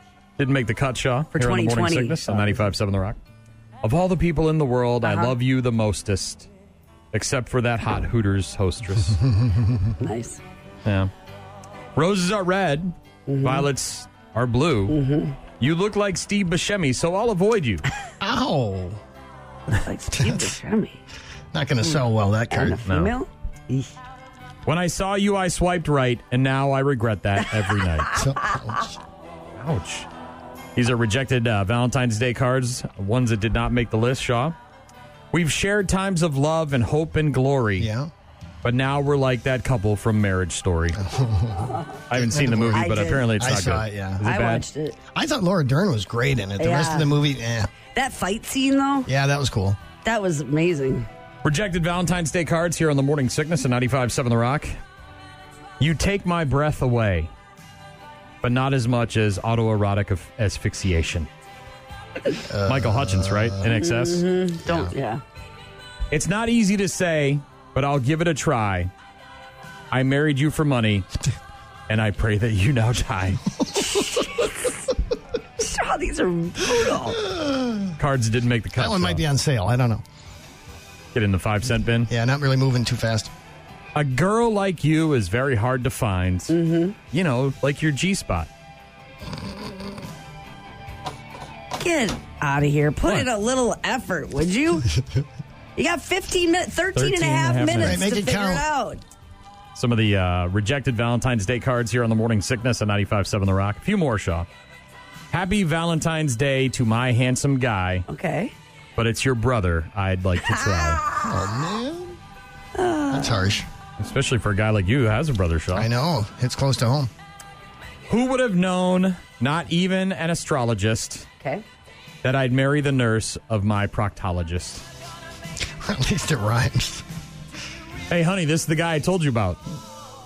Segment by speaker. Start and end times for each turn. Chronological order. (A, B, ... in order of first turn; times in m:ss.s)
0:00.4-0:03.2 A
0:01.3-0:02.6 B
0:03.8-0:06.5 A
0:05.0-0:05.3 B
0:07.1-0:09.2 A
0:09.3-0:09.8 C
0:10.0-0:10.4 B
0:10.8-0:11.1 A
0:12.0-0:15.0 A
0:13.3-0:13.7 B
0:14.9-0:15.4 B
0:15.6-0:17.8 A
0:18.2-0:19.0 C
0:19.7-0:21.0 B
0:20.2-0:20.4 C
0:21.5-0:22.8 C
0:22.5-0:23.9 B
0:22.9-0:23.1 A
0:24.7-0:28.2 A
0:28.1-0:29.0 C
0:29.6-0:30.1 A
0:30.8-0:34.6 A
0:35.3-0:37.9 A
0:37.8-0:38.1 C
0:38.6-0:41.0 A
0:41.0-0:44.2 C
0:42.1-0:44.6 A
0:42.7-0:43.3 B
0:44.2-0:45.0 B
0:45.1-0:47.7 C
0:46.6-0:47.1 B
0:47.9-0:49.1 B
0:49.1-0:49.8 C
0:50.0-0:51.1 B
0:51.4-0:54.7 A
0:55.8-0:57.3 A
0:58.4-1:01.3 A
1:02.5-1:03.6 C
1:02.7-1:04.2 A
1:03.7-1:05.2 B
1:04.7-1:04.9 C
1:06.1-1:08.9 A
1:09.9-1:11.1 A
1:11.9-1:13.4 A
1:15.6-1:17.2 B
1:17.2-1:17.9 C
1:18.0-1:19.2 A
1:18.8-1:20.0 C
1:21.1-1:22.1 A
1:22.1-1:23.3 C
1:24.0-1:26.5 A
1:26.5-1:27.0 B
1:27.1-1:28.5 A
1:31.8-1:34.9 B
1:35.8-1:39.0 B
1:37.0-1:38.0 A
1:37.8-1:38.6 C
1:39.8-1:44.5 A
1:45.3-1:48.0 A
1:48.1-1:48.5 B
1:49.0-1:51.0 A
1:50.6-1:51.2 B
1:51.2-1:52.2 C
1:52.8-1:53.5 B
1:53.1-1:53.7 C
1:54.0-1:55.9 A
1:55.8-1:57.1 C
1:58.1-2:01.3 A
2:02.2-2:04.8 A
2:05.8-2:07.0 C
2:08.1-2:09.6 A